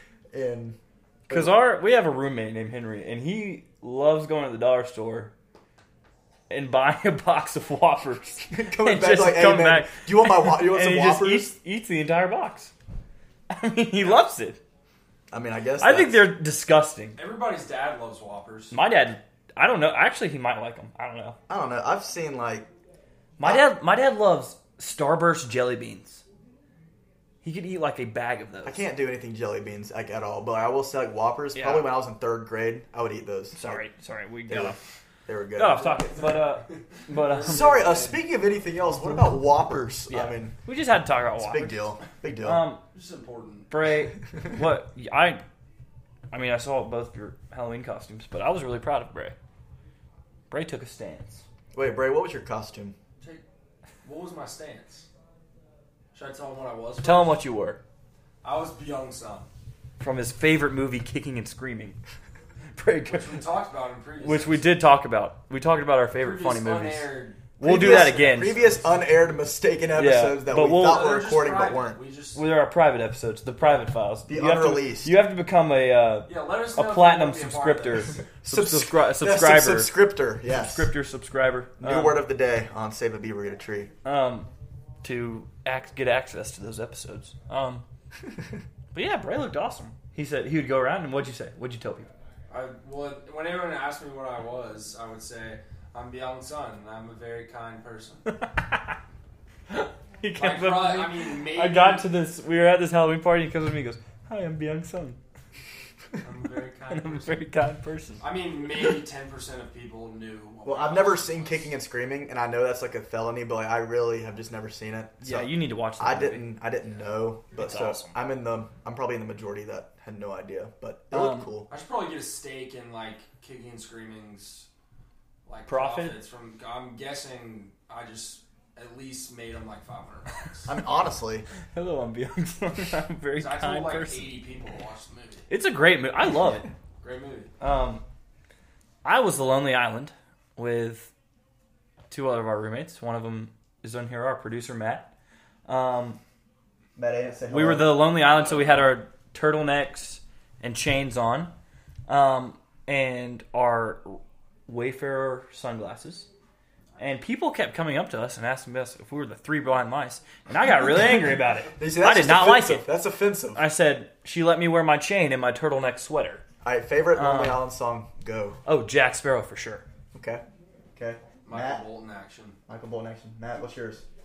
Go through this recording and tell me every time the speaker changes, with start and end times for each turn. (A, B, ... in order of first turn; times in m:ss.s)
0:00.3-0:01.5 A
0:01.3-0:05.3 B
0:06.5-0:12.7 B
0:08.5-0:11.5 A
0:13.5-0:14.6 B
0:15.3-0:16.3 A
0:15.8-0:17.2 B
0:17.2-0:18.7 C
0:18.7-0:21.4 B
0:21.5-0:22.7 A
0:23.4-0:26.2 B
0:27.4-0:28.8 B
0:28.6-0:33.8 A
0:31.5-0:31.9 B
0:33.5-0:34.8 B
0:34.5-0:36.0 A
0:35.5-0:37.7 B
0:35.9-0:38.2 C
0:37.5-0:40.6 A
0:40.1-0:41.8 B
0:41.4-0:42.6 A
0:42.4-0:42.8 B
0:42.9-0:43.7 C
0:43.7-0:45.4 B
0:46.3-0:49.4 B
0:50.5-0:51.4 B
0:51.7-0:52.9 A
0:54.0-0:55.1 C
0:56.1-0:57.4 C
0:57.0-0:57.8 B
0:58.4-0:59.5 C
1:00.0-1:02.0 B
1:02.7-1:03.4 B
1:03.1-1:04.7 C
1:04.2-1:07.1 B
1:06.2-1:08.9 C
1:07.6-1:08.6 B
1:07.6-1:12.0 A
1:09.9-1:11.1 B
1:10.8-1:12.4 C
1:12.3-1:20.0 B
1:14.3-1:15.1 A
1:16.3-1:18.2 C
1:18.4-1:20.9 A
1:20.5-1:22.2 B
1:21.8-1:23.9 A
1:24.0-1:24.5 B
1:25.0-1:27.8 B
1:28.9-1:32.1 B
1:32.5-1:38.3 C
1:38.3-1:39.0 B
1:39.7-1:45.2 B
1:40.4-1:42.1 C
1:46.2-1:47.4 C
1:46.9-1:48.2 B
1:48.2-1:51.7 C
1:50.6-2:01.7 A
1:55.2-1:56.4 B
1:57.5-1:58.2 B
2:01.1-2:01.5 B
2:01.7-2:04.7 C
2:05.4-2:10.7 C
2:05.7-2:06.2 B
2:10.6-2:11.4 A
2:11.7-2:14.3 B
2:13.4-2:15.5 C
2:15.5-2:16.7 B
2:17.0-2:17.5 C
2:17.6-2:18.0 B
2:19.0-2:21.1 B
2:22.1-2:25.1 B
2:25.7-2:26.2 B
2:27.0-2:28.1 A
2:27.5-2:31.5 B
2:32.1-2:36.3 B
2:37.0-2:42.8 B
2:41.8-2:43.6 A
2:43.5-2:46.4 B
2:46.6-2:48.6 A
2:47.1-2:47.6 B
2:48.6-2:49.8 B
2:50.1-2:50.4 A
2:50.9-2:51.8 A
2:51.4-2:52.6 C
2:52.7-2:54.0 A